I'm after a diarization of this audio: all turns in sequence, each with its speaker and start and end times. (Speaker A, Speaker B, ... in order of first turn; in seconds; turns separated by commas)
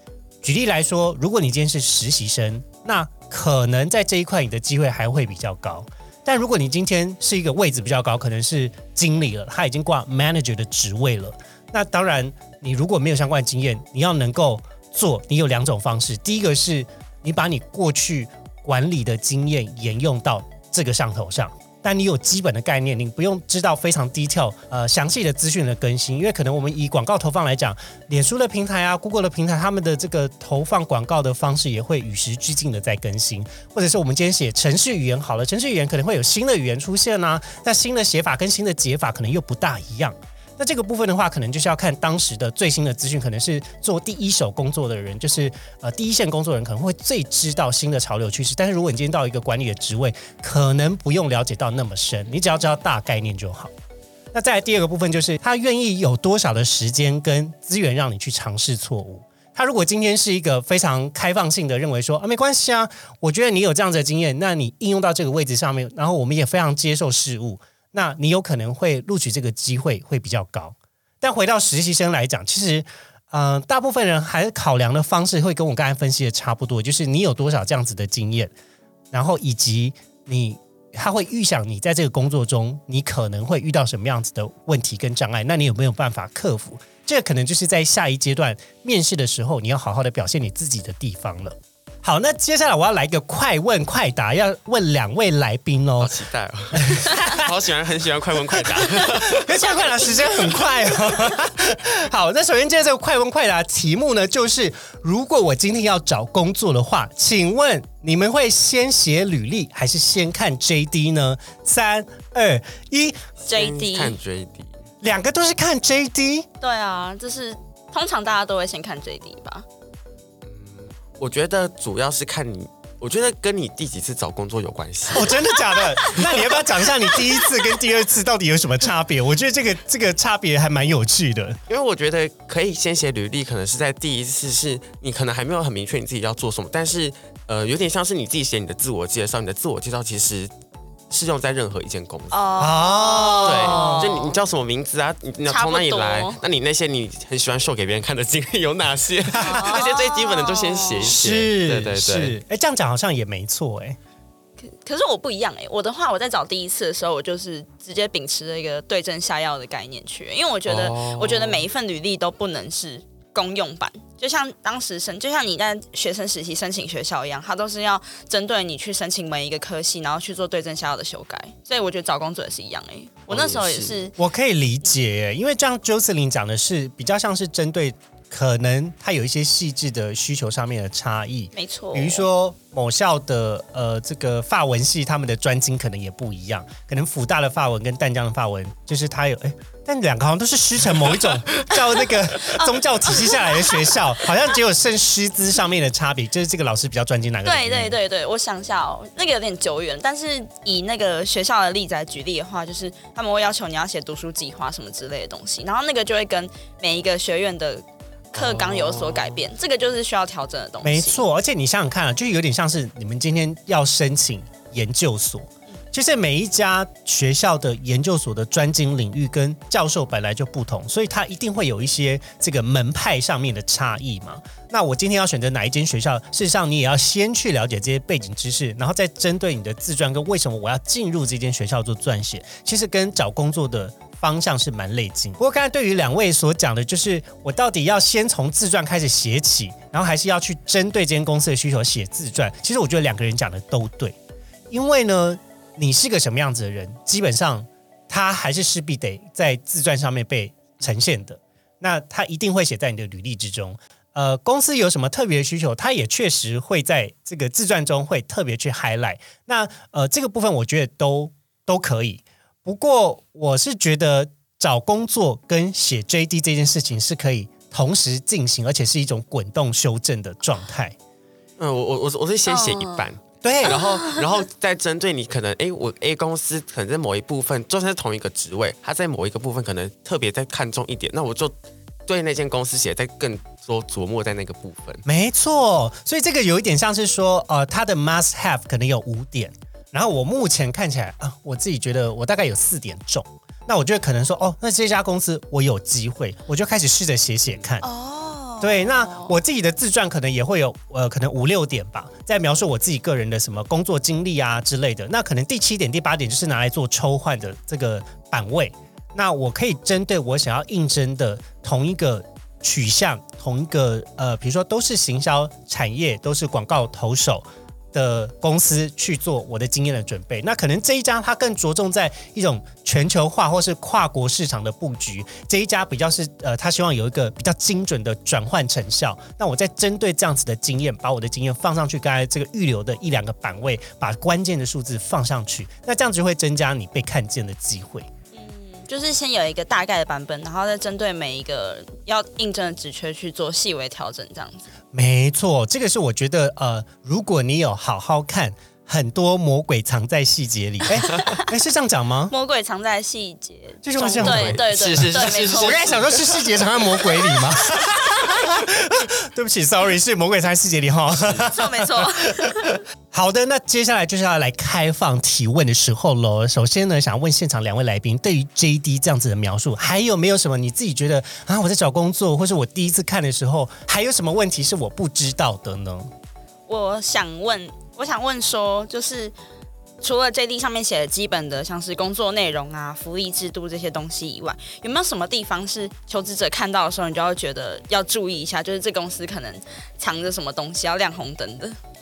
Speaker A: 0.4-53.7, Speaker A: 54.3-78.5, Speaker A: 79.1-96.2, Speaker B: 96.0-100.2, Speaker A: 96.7-97.5, Speaker A: 98.6-113.2, Speaker B: 113.4-114.8, Speaker C: 113.5-114.2, Speaker A: 115.0-116.5, Speaker C: 116.6-119.7, Speaker B: 120.4-125.3, Speaker A: 125.1-131.6, Speaker B: 126.1-126.4, Speaker B: 131.7-140.5, Speaker B: 141.1-142.4, Speaker C: 142.3-144.3, Speaker A: 142.6-144.2, Speaker B: 143.4-152.3, Speaker C: 145.5-146.4, Speaker C: 149.4-151.1, Speaker A: 149.5-149.7, Speaker A: 151.0-154.0, Speaker C: 154.6-174.1, Speaker B: 160.7-161.7, Speaker B: 173.3-174.0, Speaker A: 174.2-197.9, Speaker C: 181.5-182.2, Speaker C: 192.4-194.0, Speaker C: 197.4-211.2, Speaker B: 208.3-209.4, Speaker A: 210.8-244.2, Speaker A: 244.7-270.9, Speaker B: 271.6-285.0, Speaker C: 272.5-273.1, Speaker A: 273.4-273.8, Speaker C: 273.7-274.2, Speaker A: 285.0-297.8, Speaker C: 297.8-299.3, Speaker A: 298.6-338.1, Speaker C: 338.3-344.7, Speaker A: 344.9-352.3, Speaker C: 352.3-356.1, Speaker A: 353.8-376.1, Speaker B: 354.2-356.2, Speaker C: 356.9-357.4, Speaker B: 361.2-361.4, Speaker C: 361.5-362.8, Speaker C: 376.7-379.3, Speaker C: 380.0-391.8